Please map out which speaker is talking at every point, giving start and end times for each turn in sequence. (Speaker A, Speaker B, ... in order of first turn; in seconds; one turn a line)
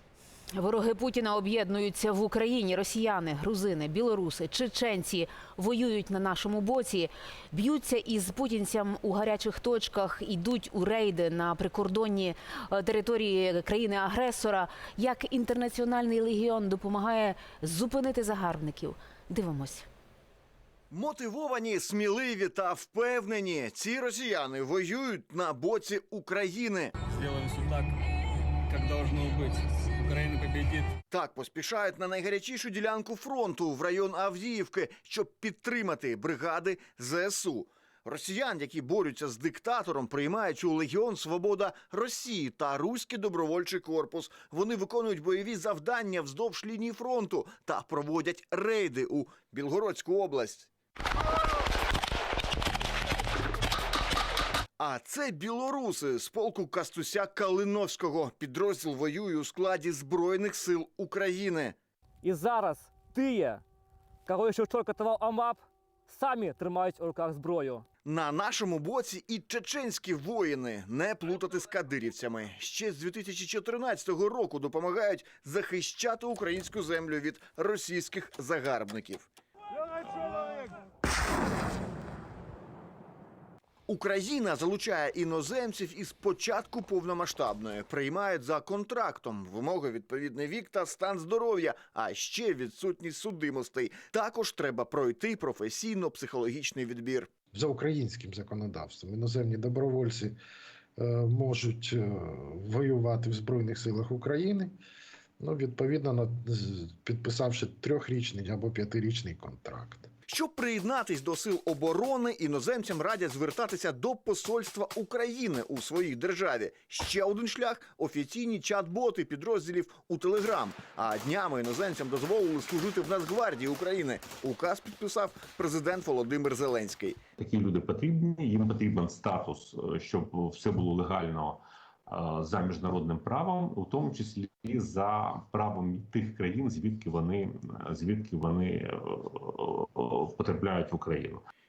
Speaker A: 0.5-19.9
Speaker B: 20.9-26.9
Speaker C: 27.1-28.0
Speaker C: 28.7-30.9
Speaker B: 31.1-50.7
Speaker B: 54.8-61.8
Speaker D: 62.2-63.6
Speaker D: 64.3-67.8
Speaker B: 68.1-79.3
Speaker B: 83.9-97.3
Speaker E: 97.5-100.4
Speaker E: 101.0-104.7
Speaker E: 105.4-110.1
Speaker B: 110.3-127.2
Speaker F: 127.4-141.4